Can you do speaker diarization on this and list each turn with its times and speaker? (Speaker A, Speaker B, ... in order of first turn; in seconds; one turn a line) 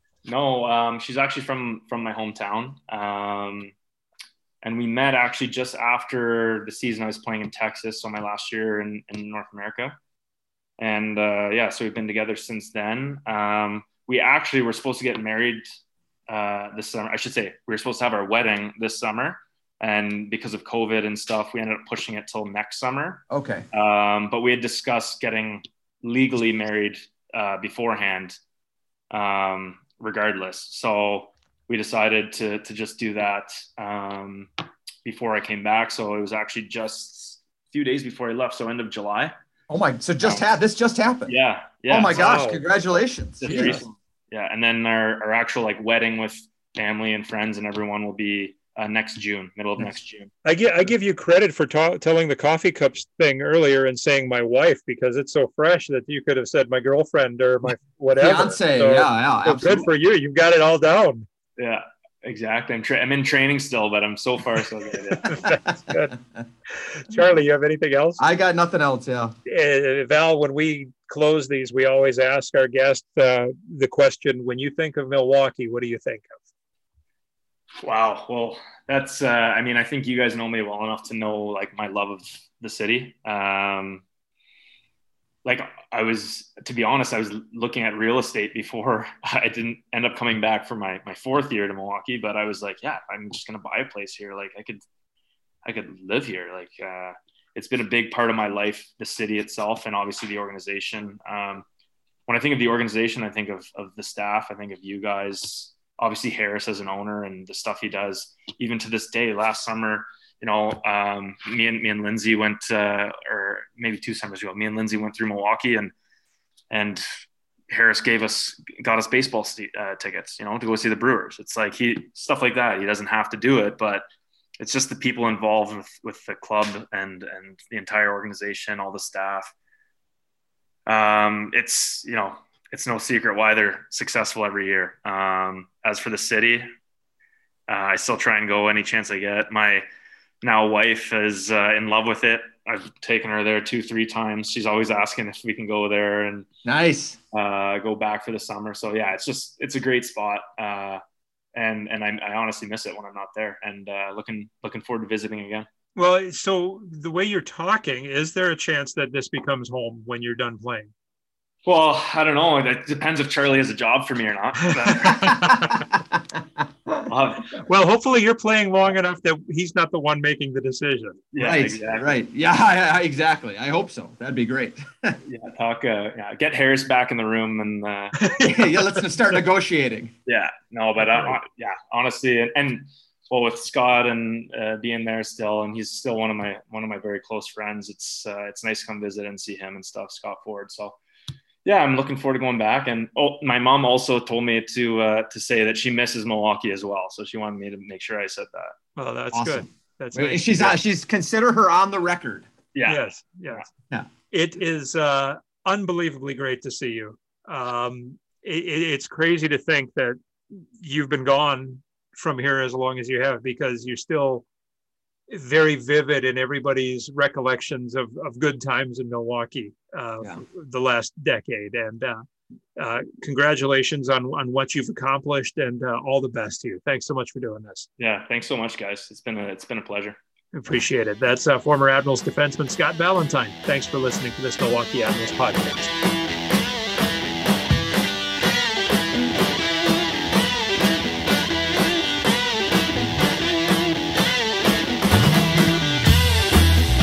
Speaker A: 0.2-3.7
Speaker A: 4.6-9.9
Speaker A: 10.8-15.6
Speaker A: 16.3-28.4
Speaker B: 23.3-23.7
Speaker A: 29.1-34.5
Speaker A: 35.0-39.3
Speaker B: 39.7-41.3
Speaker A: 40.2-40.5
Speaker A: 41.3-42.4
Speaker B: 41.9-43.8
Speaker C: 42.1-42.6
Speaker A: 43.4-50.3
Speaker C: 43.4-43.8
Speaker C: 50.4-61.3
Speaker B: 58.2-59.9
Speaker A: 61.6-65.3
Speaker C: 65.1-66.2
Speaker C: 66.8-68.2
Speaker B: 68.2-69.3
Speaker C: 69.5-76.4
Speaker A: 77.8-84.0
Speaker A: 85.4-94.8
Speaker A: 95.6-101.7
Speaker A: 102.3-115.9
Speaker A: 116.7-117.0
Speaker A: 117.7-124.0
Speaker A: 124.6-129.5
Speaker A: 130.9-136.7
Speaker A: 137.7-139.8
Speaker A: 140.4-146.5
Speaker B: 146.6-147.2
Speaker A: 147.3-151.0
Speaker A: 151.5-155.7
Speaker C: 155.9-160.9
Speaker A: 161.6-165.7
Speaker C: 164.6-165.8
Speaker B: 165.0-166.2
Speaker A: 167.1-167.5
Speaker C: 167.6-171.2
Speaker A: 171.3-172.1
Speaker B: 171.4-175.2
Speaker A: 175.2-178.2
Speaker C: 178.2-179.0
Speaker B: 178.4-180.1
Speaker A: 180.2-191.0
Speaker A: 191.6-198.7
Speaker C: 198.9-200.8
Speaker B: 199.3-202.5
Speaker A: 202.7-203.7
Speaker C: 202.8-203.7
Speaker C: 204.3-214.4
Speaker C: 215.3-222.2
Speaker C: 222.8-227.9
Speaker A: 228.0-230.2
Speaker C: 230.5-235.9